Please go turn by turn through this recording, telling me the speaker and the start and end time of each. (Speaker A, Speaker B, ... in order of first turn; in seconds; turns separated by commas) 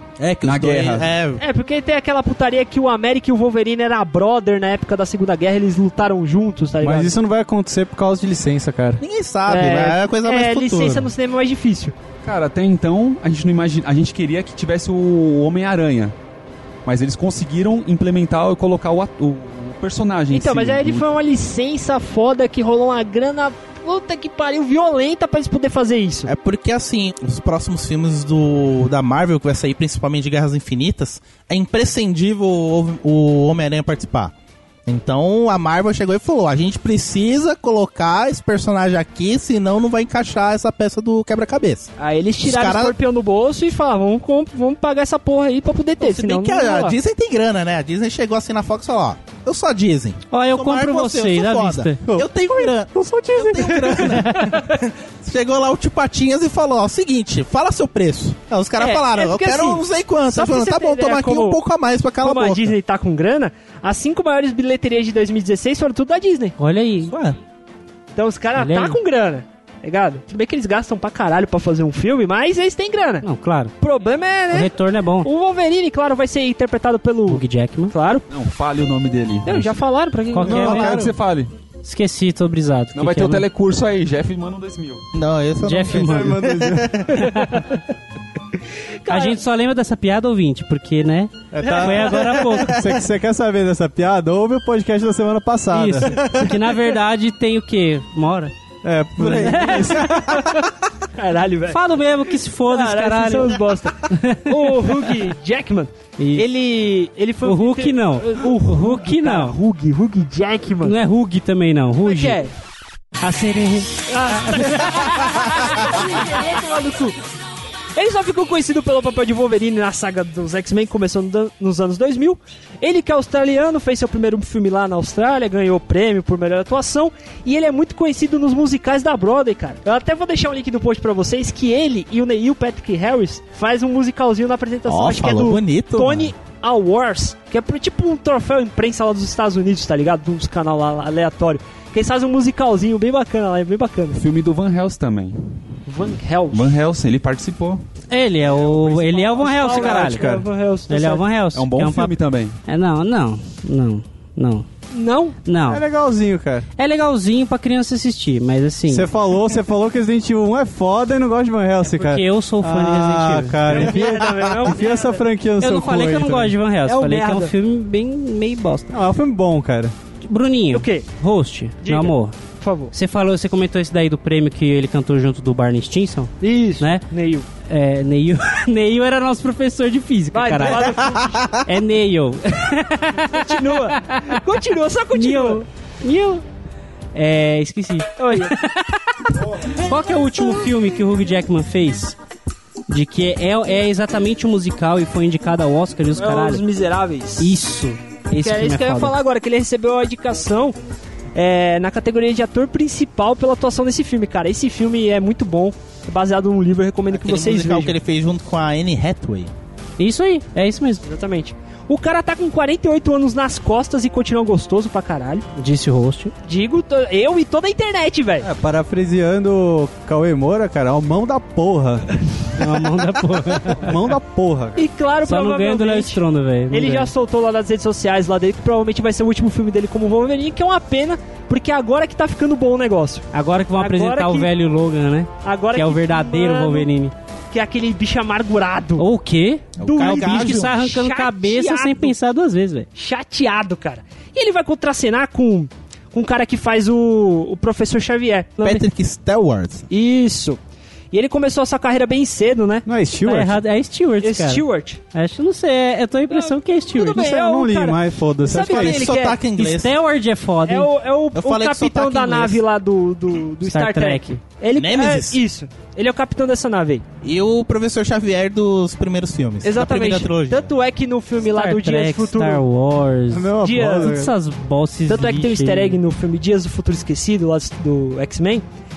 Speaker A: 0.2-1.4, Speaker B: 0.4-1.1, Speaker C: 1.4-7.1, Speaker D: 6.8-9.0, Speaker A: 9.0-11.1, Speaker C: 9.5-11.9, Speaker B: 12.2-16.1, Speaker B: 16.8-21.1, Speaker C: 20.3-26.3, Speaker A: 26.3-34.3, Speaker A: 34.9-41.9, Speaker C: 42.0-47.0, Speaker A: 42.4-42.9, Speaker A: 46.0-62.7, Speaker E: 50.3-52.0, Speaker D: 52.0-53.8, Speaker C: 53.7-54.6, Speaker C: 58.8-61.6, Speaker C: 62.2-66.5, Speaker E: 66.6-67.1, Speaker A: 67.1-67.4, Speaker C: 68.2-73.2, Speaker E: 68.5-69.0, Speaker E: 73.2-73.7, Speaker C: 73.8-74.7, Speaker E: 74.5-75.3, Speaker C: 75.2-78.2, Speaker E: 77.3-77.9, Speaker B: 78.3-79.7, Speaker C: 79.5-80.8, Speaker E: 80.3-81.0, Speaker B: 80.4-81.5, Speaker D: 80.6-81.1, Speaker A: 80.7-81.1, Speaker E: 81.8-83.4, Speaker B: 82.9-85.0, Speaker A: 85.1-87.3, Speaker E: 85.6-86.4, Speaker D: 85.9-87.1, Speaker E: 87.2-87.6, Speaker C: 89.0-89.4, Speaker E: 89.1-92.8, Speaker D: 91.5-96.2, Speaker C: 91.6-92.5, Speaker E: 95.7-98.5, Speaker D: 98.8-100.3, Speaker A: 99.2-100.4, Speaker C: 99.3-100.6, Speaker C: 101.2-102.0, Speaker E: 101.7-105.0, Speaker C: 102.7-111.0, Speaker E: 106.2-106.4, Speaker E: 107.4-109.5, Speaker E: 110.8-112.4, Speaker C: 112.0-112.5, Speaker E: 113.2-115.9, Speaker C: 114.1-117.2, Speaker C: 117.9-144.2, Speaker A: 134.9-136.3, Speaker B: 144.1-145.6, Speaker C: 145.9-146.8, Speaker B: 146.5-147.8, Speaker E: 148.1-150.3, Speaker C: 148.5-151.2, Speaker D: 149.9-150.4, Speaker E: 150.9-152.1, Speaker B: 151.5-152.6, Speaker E: 152.7-154.7, Speaker C: 154.9-155.4, Speaker E: 155.4-155.8, Speaker D: 155.7-156.7, Speaker E: 156.8-159.1, Speaker D: 158.9-166.6, Speaker E: 161.9-163.8, Speaker C: 163.7-165.2, Speaker E: 165.6-168.9, Speaker C: 166.8-167.5, Speaker D: 168.9-169.9, Speaker E: 170.2-172.3, Speaker C: 170.7-171.1, Speaker C: 171.8-172.9, Speaker E: 172.9-177.0, Speaker C: 176.4-177.5, Speaker E: 177.6-181.0, Speaker C: 180.3-181.4, Speaker A: 180.8-181.6, Speaker E: 181.6-184.4, Speaker C: 183.3-185.6, Speaker E: 185.1-186.4, Speaker E: 187.1-188.9, Speaker C: 188.2-188.6, Speaker E: 189.6-192.2, Speaker E: 192.9-196.6, Speaker C: 196.2-197.6, Speaker E: 197.4-199.2, Speaker C: 198.3-200.8, Speaker C: 201.3-207.9, Speaker A: 207.1-209.5, Speaker E: 210.0-211.0, Speaker C: 211.0-215.4, Speaker E: 215.6-216.3, Speaker C: 216.4-218.5, Speaker D: 218.4-222.1, Speaker E: 222.5-223.9, Speaker D: 223.6-224.9, Speaker C: 224.8-234.5, Speaker E: 225.2-227.1, Speaker E: 233.3-237.1, Speaker C: 235.4-236.9, Speaker C: 237.5-239.1, Speaker E: 239.0-242.9, Speaker A: 239.8-240.7, Speaker C: 239.8-242.1, Speaker C: 242.9-248.8, Speaker A: 248.6-249.9, Speaker C: 249.9-250.6, Speaker C: 251.1-252.8, Speaker D: 252.8-253.6, Speaker E: 253.2-257.2, Speaker C: 254.2-255.0, Speaker C: 256.3-259.4, Speaker D: 257.0-259.1, Speaker A: 258.7-259.9, Speaker E: 259.5-260.9, Speaker C: 260.6-267.0, Speaker A: 261.3-262.6, Speaker E: 263.6-264.4, Speaker A: 264.8-265.4, Speaker A: 267.2-270.7, Speaker C: 269.6-272.6, Speaker E: 271.4-276.0, Speaker D: 273.3-274.3, Speaker C: 273.6-274.2, Speaker C: 275.1-278.6